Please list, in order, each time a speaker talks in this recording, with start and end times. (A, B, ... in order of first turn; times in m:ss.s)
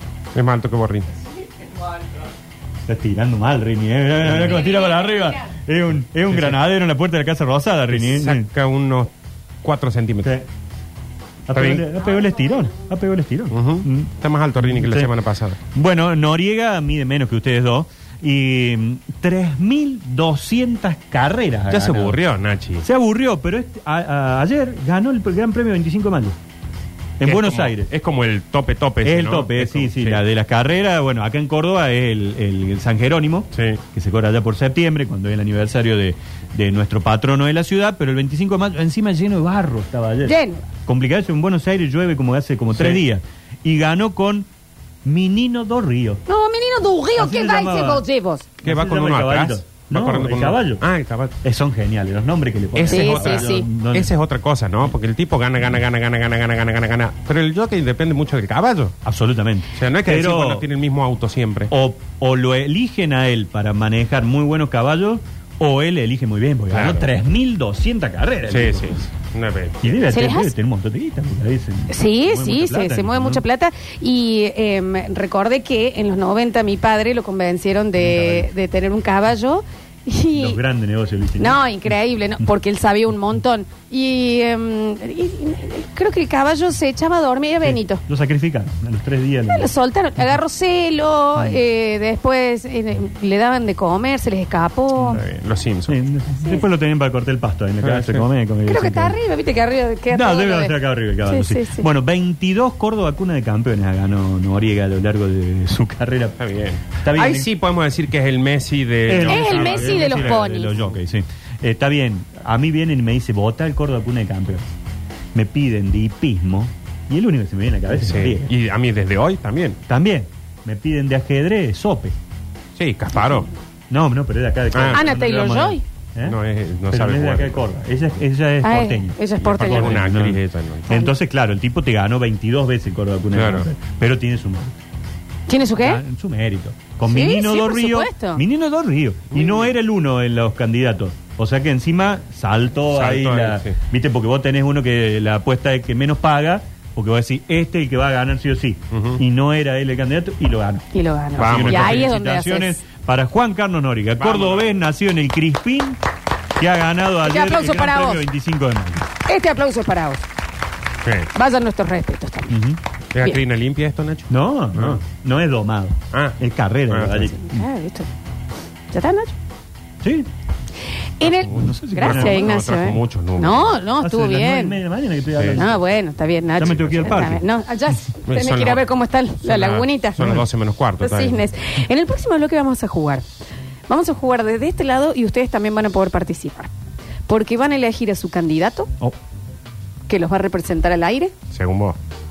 0:00.3-0:01.2 A
0:02.9-0:08.5 B
0:04.2-0:04.7 A
0:06.3-0:06.6 A
0:07.9-0:09.1 A
0:09.6-0:10.4 A
0:11.5-0:15.1 B
0:11.5-0:11.9 A
0:13.5-0:15.6 A
0:15.7-0:22.2 B
0:21.7-0:22.8 A
0:22.8-0:26.4 B
0:27.2-0:27.9 B
0:27.2-0:30.2 A
0:29.0-0:44.5 B
0:33.5-0:33.8 A
0:40.2-0:40.6 C
0:42.7-0:43.0 A
0:45.0-0:46.2 B
0:46.3-0:48.5 C
0:47.2-0:48.0 B
0:48.6-0:50.8 B
0:48.6-0:51.3 A
0:51.4-0:54.1 B
0:52.7-0:59.0 A
0:52.9-0:53.7 C
0:59.0-1:00.6 B
0:59.7-1:01.7 A
1:01.7-1:09.0 B
1:06.7-1:07.1 A
1:08.5-1:10.0 A
1:09.8-1:13.4 B
1:10.1-1:10.5 C
1:11.9-1:20.6 C
1:18.0-1:18.5 B
1:20.4-1:21.6 B
1:21.4-1:28.0 C
1:27.6-1:29.7 B
1:29.5-1:35.2 C
1:31.3-1:31.6 B
1:35.0-1:35.2 B
1:35.1-1:36.0 A
1:35.9-1:39.2 B
1:37.8-1:38.2 A
1:38.7-1:41.9 C
1:40.1-1:46.4 B
1:46.4-1:51.0 A
1:46.9-1:47.5 B
1:49.0-1:54.7 B
1:49.1-1:50.7 C
1:55.3-1:58.5 B
1:57.9-1:59.8 A
1:59.9-2:02.2 B
2:02.8-2:03.5 A
2:03.9-2:06.4 B
2:04.7-2:05.2 A
2:04.9-2:05.8 C
2:06.2-2:07.7 A
2:06.9-2:14.8 B
2:08.6-2:10.0 C
2:09.4-2:11.0 A
2:13.3-2:13.7 A
2:15.5-2:16.0 C
2:15.8-2:36.0 B
2:17.0-2:18.4 C
2:19.3-2:19.7 A
2:22.9-2:23.7 A
2:28.9-2:29.2 A
2:30.9-2:32.7 C
2:31.3-2:32.1 A
2:34.2-2:34.8 A
2:36.6-2:39.1 B
2:37.2-2:38.2 C
2:39.2-2:40.2 C
2:41.0-2:41.3 A
2:41.3-2:42.6 C
2:42.5-2:42.8 B
2:43.1-2:45.0 A
2:44.3-2:47.6 B
2:46.1-2:46.4 A
2:46.9-2:47.3 A
2:47.3-2:48.1 C
2:48.9-2:49.3 C
2:50.0-2:50.3 B
2:51.2-2:54.8 C
2:51.2-2:53.8 A
2:51.5-2:52.8 B
2:54.0-2:55.8 B
2:55.5-3:00.4 C
2:56.6-2:57.4 B
2:58.2-2:58.9 A
2:59.4-3:01.4 A
3:01.0-3:03.2 C
3:03.9-3:06.7 C
3:07.3-3:08.9 C
3:10.1-3:11.3 C
3:11.5-3:12.0 A